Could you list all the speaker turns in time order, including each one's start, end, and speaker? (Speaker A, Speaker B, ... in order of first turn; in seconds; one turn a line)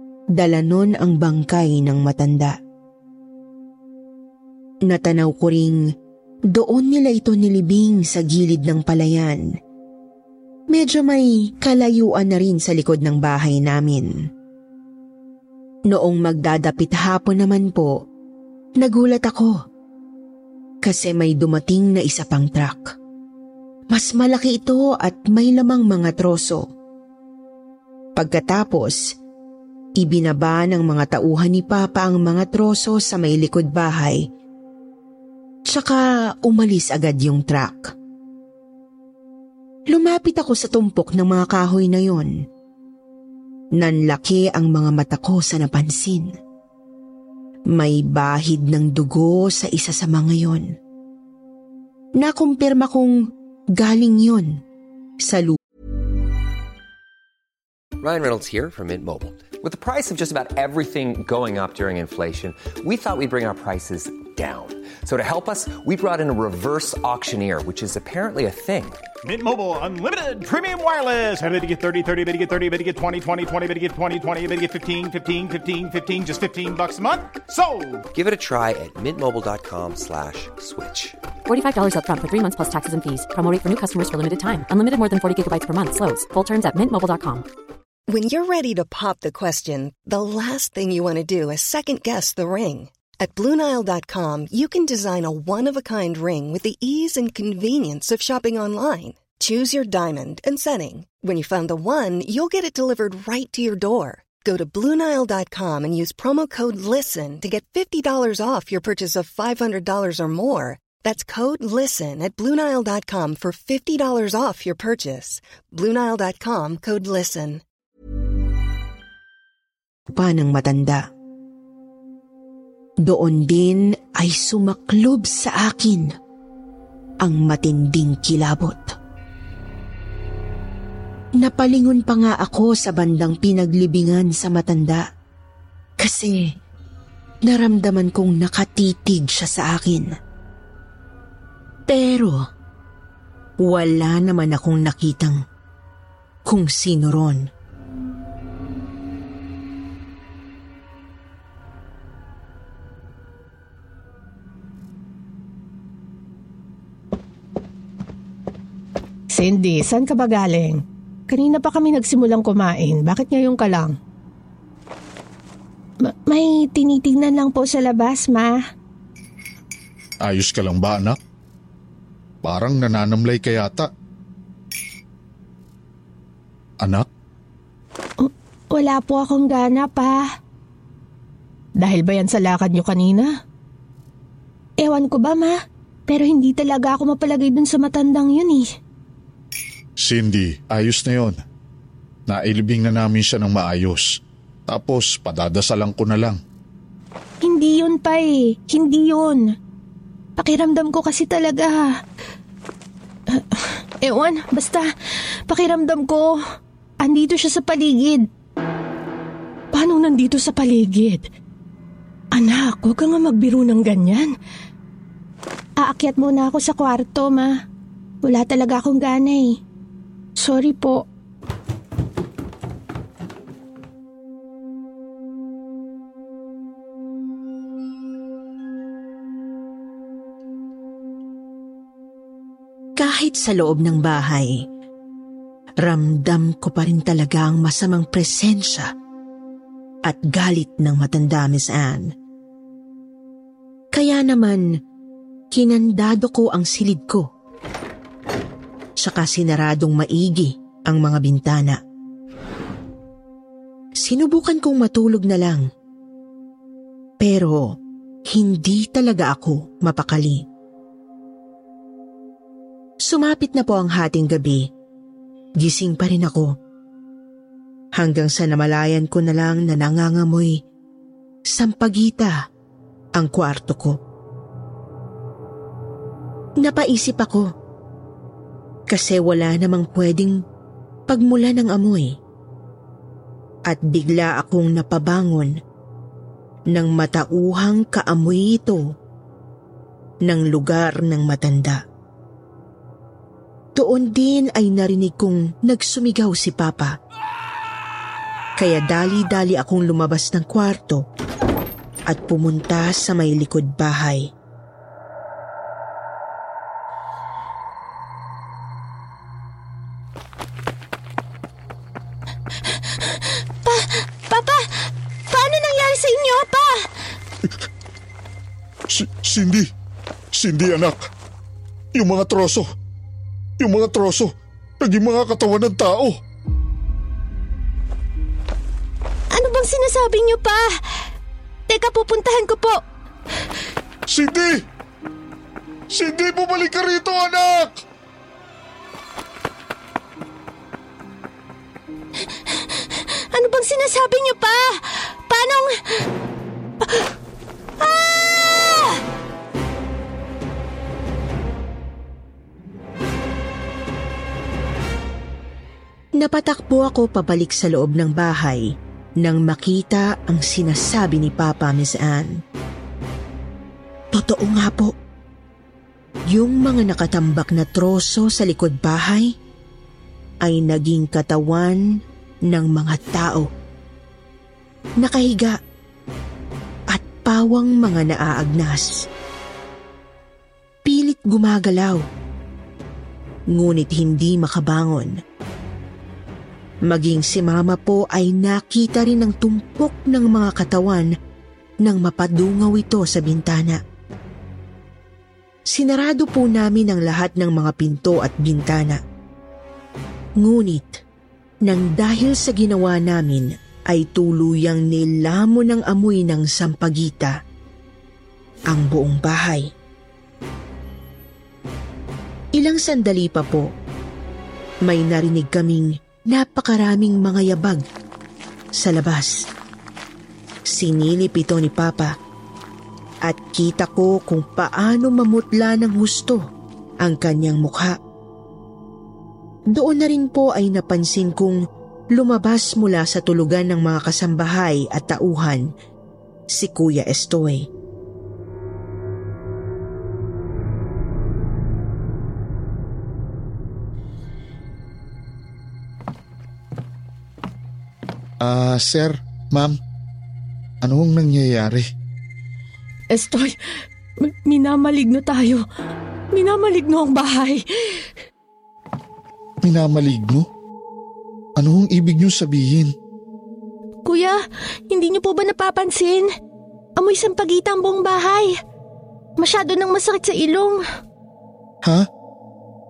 Speaker A: 0.3-2.6
Speaker A: 4.9-5.8
Speaker A: 6.5-9.4
Speaker A: 10.7-14.1
Speaker A: 15.9-17.9
Speaker A: 18.8-19.5
Speaker A: 20.8-22.9
Speaker A: 23.9-26.7
Speaker A: 28.1-29.0
Speaker A: 30.0-34.2
Speaker A: 35.7-37.9
Speaker A: 39.9-42.3
Speaker A: 43.8-46.3
Speaker A: 47.7-50.6
Speaker A: 52.2-53.1
Speaker A: 53.7-54.6
Speaker A: 55.2-55.6
Speaker B: 58.0-69.0
Speaker C: 69.2-78.0
Speaker B: 78.1-81.2
Speaker D: 81.5-87.5
Speaker E: 88.1-117.6
Speaker A: 120.1-121.0
Speaker A: 123.0-126.1
Speaker A: 127.2-128.9
Speaker A: 131.4-135.0
Speaker A: 136.0-136.4
Speaker A: 137.4-140.1
Speaker A: 141.9-142.3
Speaker A: 143.6-145.4
Speaker A: 146.4-147.4
Speaker F: 159.3-163.9
Speaker F: 166.0-168.5
Speaker G: 170.2-171.2
Speaker G: 172.4-173.9
Speaker F: 178.2-180.2
Speaker F: 181.8-183.3
Speaker F: 184.8-185.5
Speaker F: 186.1-188.7
Speaker G: 190.0-191.4
Speaker G: 192.3-194.1
Speaker G: 194.7-196.4
Speaker F: 197.4-199.5
Speaker F: 200.4-201.9
Speaker F: 203.3-204.8
Speaker F: 205.5-206.3
Speaker F: 207.0-208.2
Speaker F: 209.7-211.2
Speaker F: 212.3-214.3
Speaker F: 215.8-217.5
Speaker F: 218.2-219.5
Speaker F: 220.4-221.0
Speaker A: 233.0-234.6
Speaker A: 235.8-238.9
Speaker A: 240.0-242.1
Speaker A: 243.9-244.7
Speaker A: 245.5-247.2
Speaker A: 249.0-251.8
Speaker A: 254.0-255.6
Speaker A: 257.2-257.6
Speaker A: 258.3-260.4
Speaker A: 263.0-264.6
Speaker A: 265.6-266.5
Speaker A: 268.0-270.6
Speaker A: 271.5-272.3
Speaker A: 273.1-274.0
Speaker A: 276.6-277.5
Speaker A: 278.9-280.4
Speaker A: 281.1-282.1
Speaker A: 283.7-285.5
Speaker A: 286.7-288.8
Speaker A: 290.2-291.8
Speaker A: 293.8-296.9
Speaker A: 298.6-301.0
Speaker A: 302.1-304.3
Speaker F: 312.9-316.9
Speaker G: 318.9-319.7
Speaker G: 320.4-321.0
Speaker G: 321.9-322.6
Speaker G: 323.6-326.2
Speaker F: 329.3-331.1
Speaker F: 331.7-332.8
Speaker G: 334.1-334.6
Speaker G: 335.9-337.7
Speaker F: 342.4-345.7
Speaker F: 347.8-349.0
Speaker A: 356.2-358.6
Speaker A: 359.2-362.3
Speaker A: 364.1-364.9
Speaker A: 366.3-369.3
Speaker A: 370.4-371.8
Speaker A: 372.5-373.5
Speaker A: 375.0-375.6
Speaker A: 376.9-379.1
Speaker A: 380.8-382.0
Speaker A: 383.5-385.1
Speaker A: 386.9-391.1
Speaker A: 391.8-393.8
Speaker A: 395.7-399.0
Speaker A: 400.4-401.0
Speaker A: 401.6-407.3
Speaker A: 408.7-409.7
Speaker A: 412.6-413.7
Speaker A: 414.9-417.8
Speaker A: 418.8-419.4
Speaker A: 420.7-422.2
Speaker A: 423.2-426.4
Speaker A: 427.0-428.0
Speaker A: 429.7-431.6
Speaker A: 432.1-435.6
Speaker A: 436.5-437.7
Speaker G: 448.4-449.8
Speaker G: 450.8-451.9
Speaker F: 453.1-453.5
Speaker F: 454.2-455.6
Speaker F: 456.3-458.1
Speaker G: 459.6-460.5
Speaker G: 461.6-462.9
Speaker F: 464.0-464.4
Speaker F: 464.9-466.3
Speaker F: 467.0-468.5
Speaker F: 469.4-470.8